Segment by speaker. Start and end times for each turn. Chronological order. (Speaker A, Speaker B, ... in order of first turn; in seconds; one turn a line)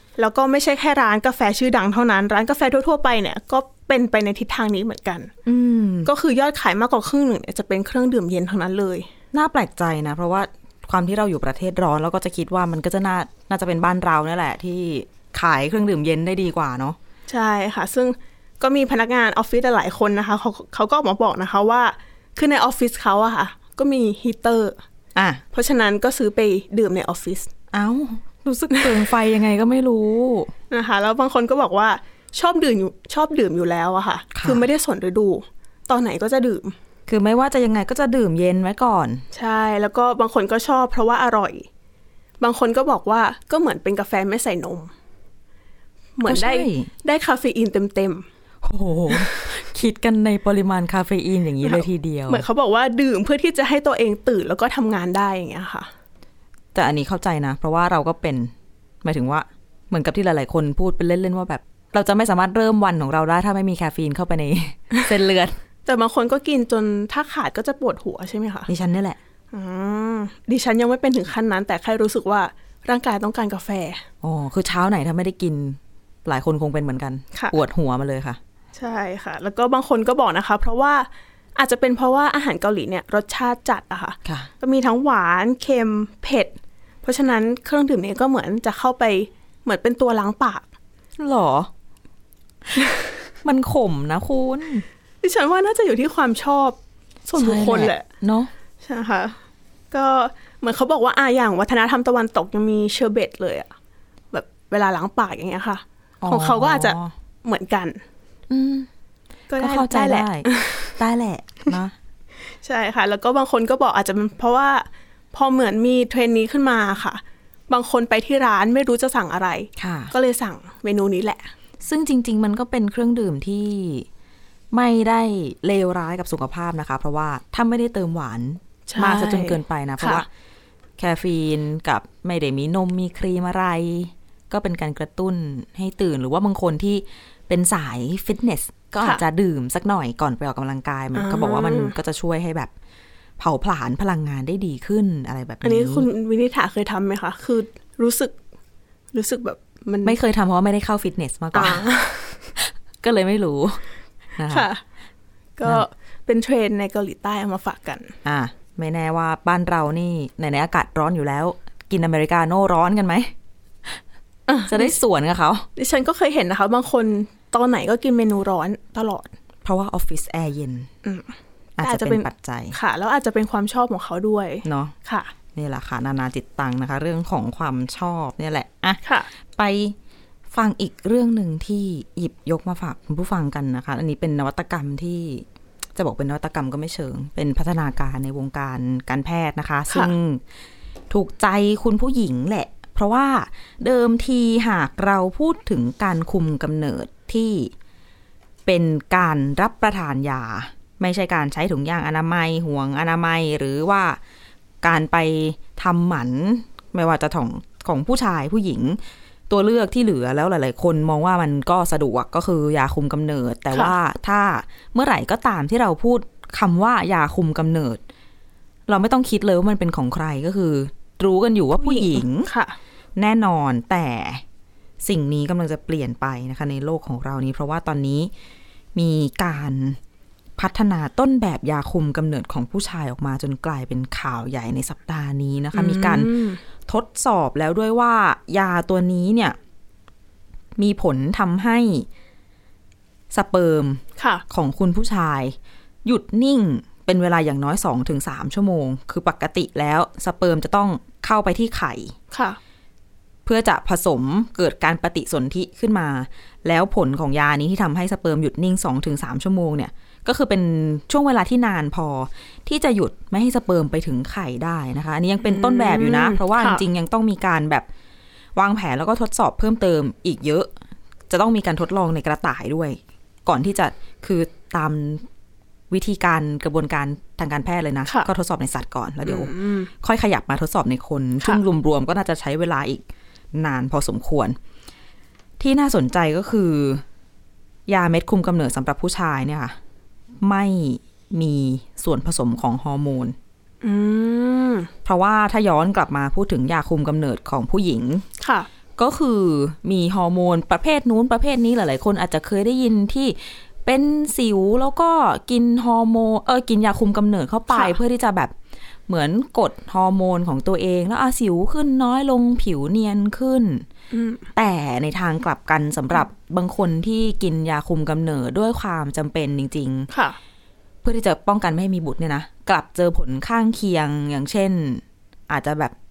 Speaker A: 0.2-5.3
Speaker B: 5.4-6.1
Speaker A: 6.0-9.1
Speaker B: 9.3-17.0
Speaker A: 17.3-24.8
Speaker B: 25.1-25.4
Speaker A: 25.5-27.5
Speaker B: 27.7-30.5
Speaker A: 28.7-29.0
Speaker A: 30.7-36.8
Speaker B: 34.3-34.6
Speaker B: 37.1-39.2
Speaker A: 39.3-41.7
Speaker A: 42.4-44.9
Speaker A: 46.1-48.2
Speaker B: 46.2-46.9
Speaker B: 48.6-52.4
Speaker A: 49.1-49.5
Speaker A: 51.6-55.9
Speaker B: 56.7-65.6
Speaker A: 65.8-68.7
Speaker B: 68.7-69.2
Speaker A: 69.5-74.0
Speaker B: 74.2-78.4
Speaker A: 78.7-90.7
Speaker B: 84.2-84.5
Speaker B: 91.2-91.7
Speaker B: 93.4-94.8
Speaker A: 95.2-98.0
Speaker B: 97.4-98.5
Speaker A: 98.8-99.4
Speaker A: 99.9-103.7
Speaker A: 104.3-108.0
Speaker B: 106.2-107.1
Speaker B: 108.5-108.9
Speaker A: 109.5-110.9
Speaker B: 109.6-111.9
Speaker A: 112.6-121.5
Speaker B: 119.8-120.1
Speaker B: 121.8-124.1
Speaker B: 124.7-130.3
Speaker A: 128.9-130.2
Speaker B: 131.0-142.7
Speaker A: 141.1-141.9
Speaker B: 143.4-146.1
Speaker A: 145.6-148.3
Speaker A: 149.1-150.2
Speaker B: 150.0-151.9
Speaker A: 151.5-152.4
Speaker B: 152.6-153.8
Speaker B: 154.4-154.7
Speaker A: 154.5-154.8
Speaker A: 155.6-158.1
Speaker B: 158.2-163.3
Speaker A: 164.5-164.9
Speaker B: 164.7-165.7
Speaker A: 165.8-169.3
Speaker B: 169.6-170.9
Speaker A: 171.0-175.3
Speaker B: 171.8-172.8
Speaker B: 174.6-174.9
Speaker B: 175.5-179.0
Speaker A: 179.0-179.3
Speaker B: 179.6-179.9
Speaker B: 180.5-190.4
Speaker B: 191.1-197.7
Speaker B: 198.7-204.2
Speaker B: 204.8-218.0
Speaker B: 218.9-222.5
Speaker A: 221.8-222.8
Speaker B: 223.2-224.4
Speaker B: 225.0-228.3
Speaker B: 228.9-230.0
Speaker B: 230.6-236.3
Speaker A: 235.7-236.6
Speaker B: 236.8-239.6
Speaker B: 240.8-242.1
Speaker B: 243.3-252.1
Speaker A: 244.2-244.4
Speaker A: 252.3-252.6
Speaker B: 253.4-267.9
Speaker A: 265.4-266.8
Speaker B: 268.5-270.7
Speaker B: 271.3-275.2
Speaker B: 275.9-284.6
Speaker A: 279.2-279.9
Speaker B: 285.6-287.0
Speaker B: 287.9-289.8
Speaker B: 290.4-293.4
Speaker A: 293.8-294.9
Speaker B: 295.0-298.2
Speaker A: 298.4-298.7
Speaker B: 298.9-308.5
Speaker A: 307.7-307.9
Speaker B: 309.1-313.9
Speaker A: 314.1-314.5
Speaker B: 314.5-320.1
Speaker A: 320.1-320.4
Speaker B: 321.0-325.9